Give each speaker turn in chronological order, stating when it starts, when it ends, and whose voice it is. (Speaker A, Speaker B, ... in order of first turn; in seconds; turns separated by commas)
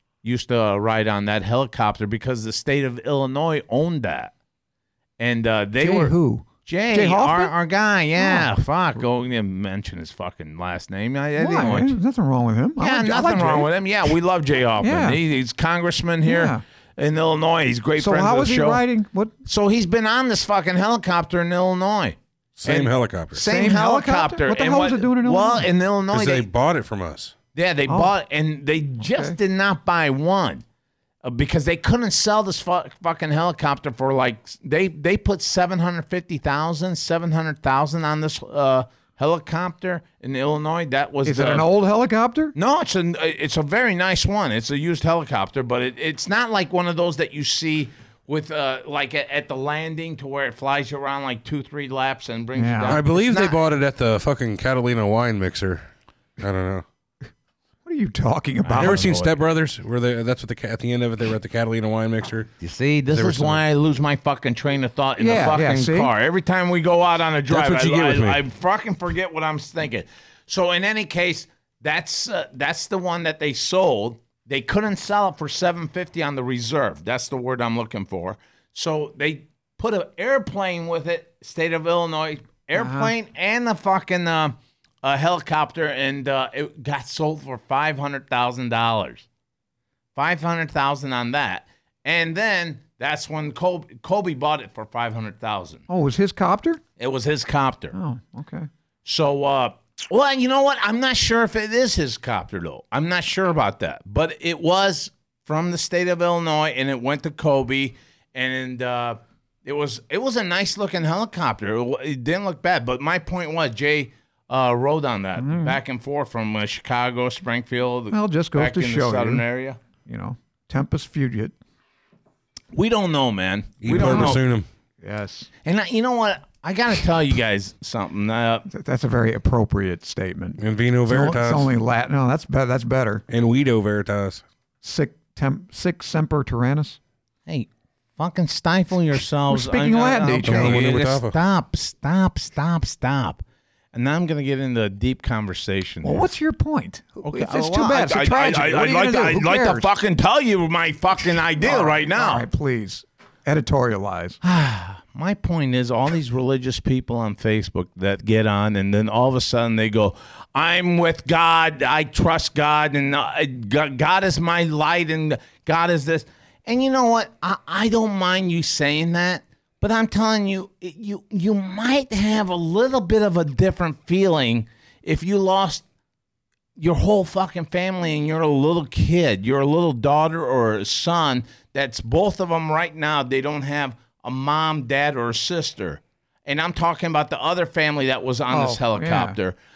Speaker A: 0.2-4.3, Speaker A: 5.2-12.0, Speaker B: 5.8-7.5, Speaker B: 8.2-8.5, Speaker B: 11.4-13.7, Speaker A: 12.8-18.8, Speaker B: 14.8-15.2, Speaker B: 16.2-16.6, Speaker B: 18.0-19.3, Speaker A: 19.5-26.5, Speaker C: 22.6-23.4, Speaker B: 23.4-25.7, Speaker C: 26.1-27.4, Speaker A: 27.6-30.6, Speaker B: 27.9-28.1, Speaker A: 31.2-41.7, Speaker B: 41.2-42.5, Speaker A: 42.6-53.6, Speaker B: 52.5-53.0, Speaker C: 52.9-55.9, Speaker C: 56.4-56.9, Speaker B: 57.9-59.1, Speaker A: 58.6-59.4, Speaker C: 58.8-62.5, Speaker A: 62.6-89.3, Speaker C: 63.1-63.6, Speaker B: 65.2-66.1, Speaker C: 67.5-68.4, Speaker B: 82.8-83.1, Speaker A: 90.2-95.8, Speaker B: 95.9-96.8, Speaker A: 97.0-98.0, Speaker B: 97.9-98.7, Speaker A: 99.0-119.8, Speaker B: 115.4-115.8, Speaker B: 118.1-119.5, Speaker B: 120.0-121.5, Speaker A: 122.7-124.4, Speaker C: 123.8-124.7, Speaker B: 123.9-124.4, Speaker B: 125.0-125.5, Speaker A: 125.7-128.7, Speaker B: 128.7-133.2, Speaker C: 130.6-131.7, Speaker C: 133.3-134.4, Speaker B: 134.8-137.0, Speaker A: 137.5-143.4, Speaker B: 139.5-140.9, Speaker C: 140.4-141.3, Speaker A: 143.9-146.3, Speaker B: 146.0-149.9, Speaker A: 147.2-152.5, Speaker B: 151.6-154.4, Speaker A: 154.4-175.8, Speaker A: 176.8-189.6, Speaker B: 188.5-189.4